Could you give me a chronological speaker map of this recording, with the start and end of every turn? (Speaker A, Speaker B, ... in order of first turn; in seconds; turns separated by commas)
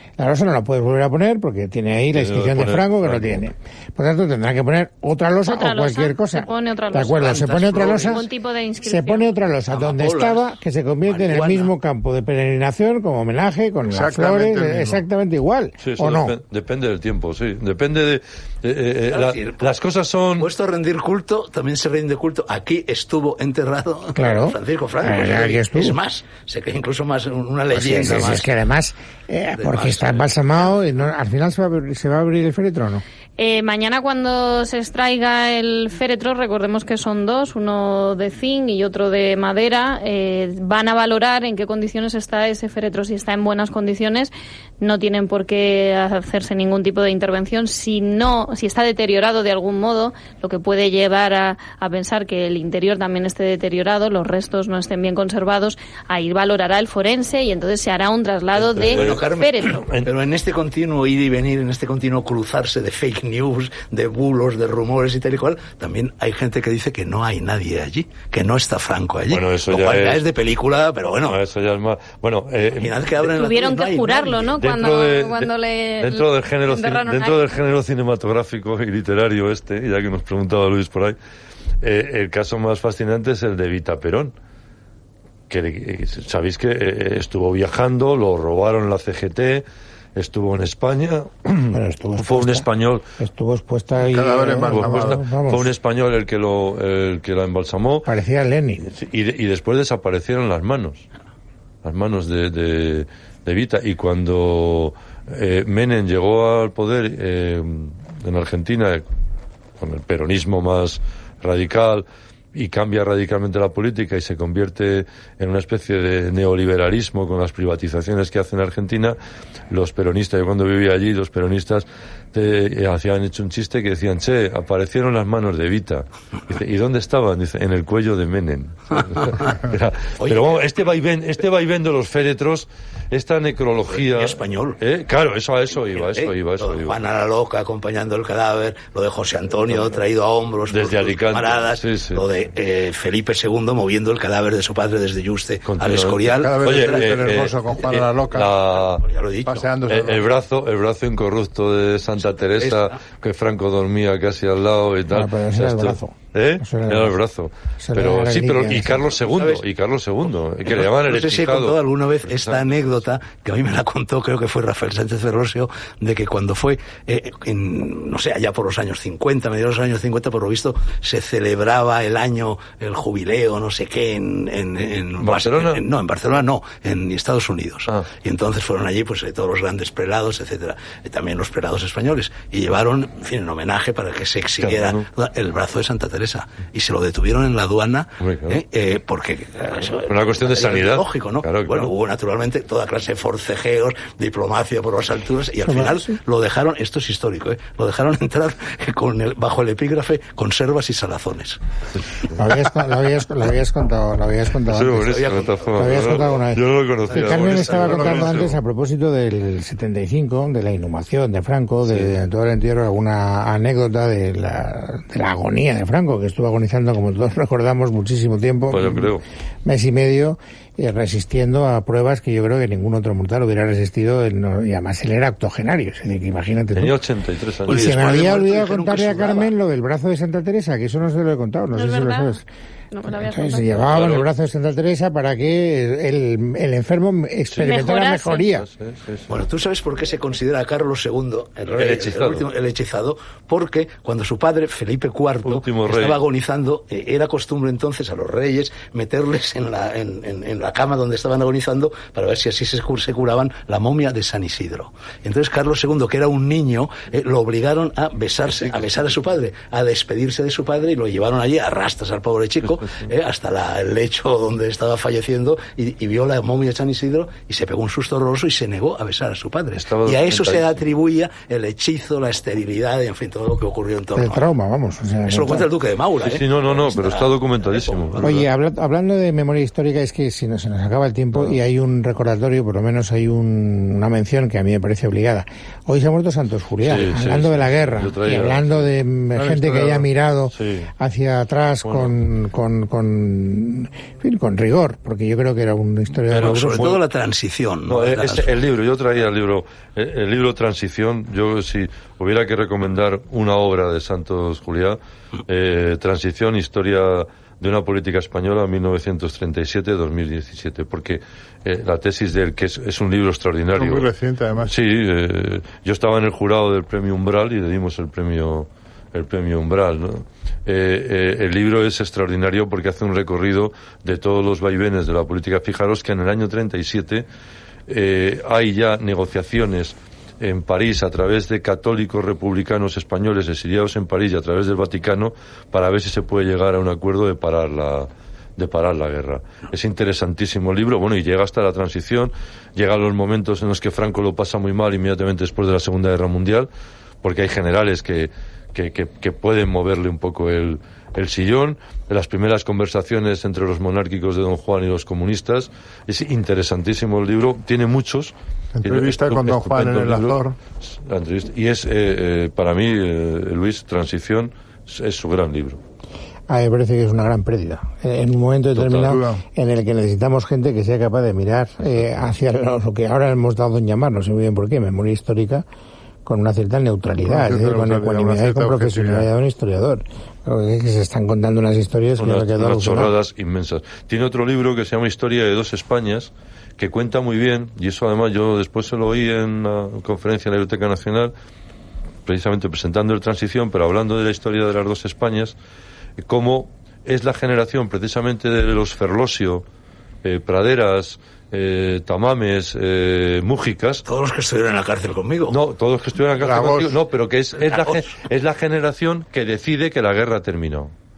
Speaker A: 0.2-8.2, Speaker B: 2.1-3.4, Speaker C: 5.5-9.3, Speaker D: 7.1-8.2, Speaker A: 8.8-16.4, Speaker D: 9.7-11.7, Speaker E: 13.9-15.0, Speaker B: 15.8-20.5, Speaker D: 19.1-19.7, Speaker D: 20.4-28.5, Speaker A: 24.1-26.0, Speaker A: 27.7-33.0, Speaker D: 29.6-30.3, Speaker C: 33.4-59.8, Speaker D: 58.5-71.4, Speaker B: 58.8-59.2, Speaker B: 69.3-70.2, Speaker B: 71.2-73.0, Speaker D: 72.7-74.6, Speaker C: 73.2-77.5, Speaker B: 74.6-81.2, Speaker B: 81.8-84.3, Speaker B: 85.5-89.6, Speaker B: 90.2-93.0, Speaker A: 91.7-92.7, Speaker A: 93.2-95.7, Speaker E: 94.0-95.2, Speaker B: 94.6-98.1, Speaker A: 98.0-98.8, Speaker B: 98.8-101.0, Speaker B: 101.8-109.0, Speaker B: 109.8-119.2, Speaker B: 119.7-137.0, Speaker D: 129.2-129.5, Speaker D: 130.2-130.6, Speaker D: 133.9-134.8, Speaker D: 135.9-147.2, Speaker B: 140.7-142.2, Speaker B: 145.6-149.0, Speaker E: 146.3-148.5, Speaker D: 148.8-149.7, Speaker E: 149.4-150.2, Speaker B: 149.9-162.9, Speaker D: 152.2-153.0, Speaker A: 155.1-157.1, Speaker A: 157.8-159.1, Speaker D: 159.3-159.6, Speaker D: 160.6-201.6, Speaker B: 175.2-175.8, Speaker B: 184.6-185.0, Speaker B: 188.2-188.6, Speaker B: 190.1-191.9, Speaker A: 195.6-196.1, Speaker A: 202.3-219.1, Speaker B: 204.7-208.6, Speaker D: 205.0-206.4, Speaker D: 207.1-208.2, Speaker B: 218.7-219.2, Speaker A: 219.6-226.9, Speaker B: 226.7-228.0, Speaker D: 227.7-229.5, Speaker A: 227.7-232.4, Speaker C: 231.7-232.4, Speaker C: 232.9-233.8, Speaker A: 233.1-238.7, Speaker B: 233.8-234.2, Speaker C: 237.6-238.5, Speaker B: 238.6-239.3, Speaker D: 239.3-274.5, Speaker B: 241.8-242.4, Speaker B: 245.4-246.2, Speaker B: 258.5-259.2, Speaker B: 269.8-270.8, Speaker A: 274.1-275.7, Speaker D: 275.3-278.4, Speaker B: 276.2-278.4, Speaker A: 278.2-296.9, Speaker B: 286.8-288.8, Speaker E: 289.3-290.1, Speaker B: 290.5-290.9, Speaker B: 291.8-292.1, Speaker B: 296.3-297.0, Speaker D: 296.3-298.5, Speaker B: 297.9-314.1, Speaker E: 313.7-314.7, Speaker B: 314.6-327.2, Speaker B: 327.9-346.7, Speaker B: 347.2-365.8, Speaker E: 358.8-360.6, Speaker A: 366.5-375.6, Speaker B: 368.8-369.2, Speaker E: 369.0-369.4, Speaker A: 376.2-383.1, Speaker E: 377.2-379.3, Speaker B: 382.2-391.3, Speaker B: 392.2-395.5, Speaker B: 396.2-399.6, Speaker B: 400.2-404.0, Speaker D: 404.0-405.6, Speaker B: 405.5-410.9, Speaker E: 406.4-407.0, Speaker D: 407.6-408.1